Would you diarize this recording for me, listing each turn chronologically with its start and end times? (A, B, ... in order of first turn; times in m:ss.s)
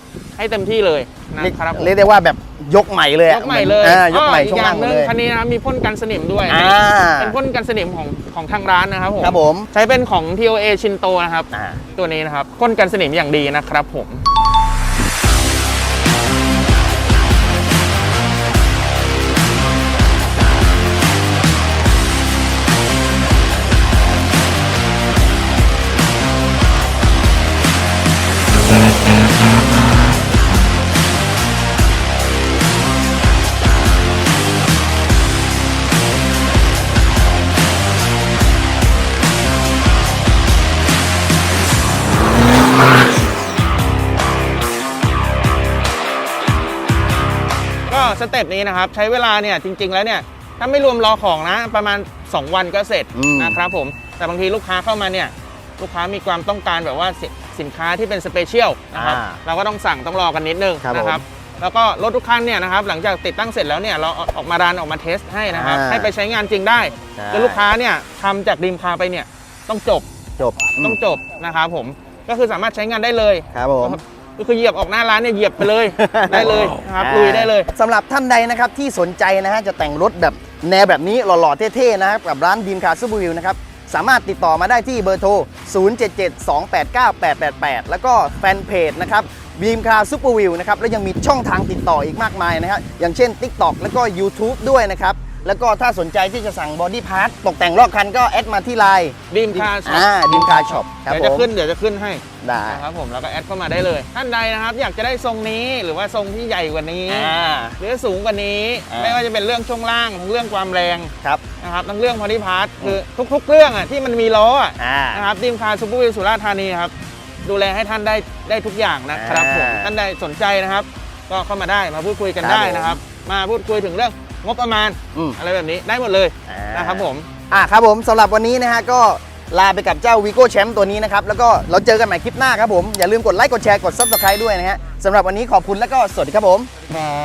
0:00.4-0:01.9 A
0:01.4-0:05.1 B
0:03.3-0:14.2 A
0:06.5-0:07.4 B
0:09.2-0:09.7 B
0:11.5-0:11.8 B
0:47.9-1:10.1 A
0:53.1-0:53.6 B
0:58.9-0:59.4 B
1:00.8-1:01.2 B
1:05.5-1:06.1 B
1:07.1-1:07.6 B
1:10.4-1:11.0 B
1:10.8-1:17.7 A
1:13.5-1:14.0 B
1:16.0-1:41.5 B
1:39.3-2:07.3 A
1:42.4-1:42.8 B
1:47.1-1:47.8 B
1:48.9-1:49.2 B
1:54.8-1:55.3 B
1:59.1-1:59.9 B
2:02.4-2:03.0 B
2:06.4-2:16.7 B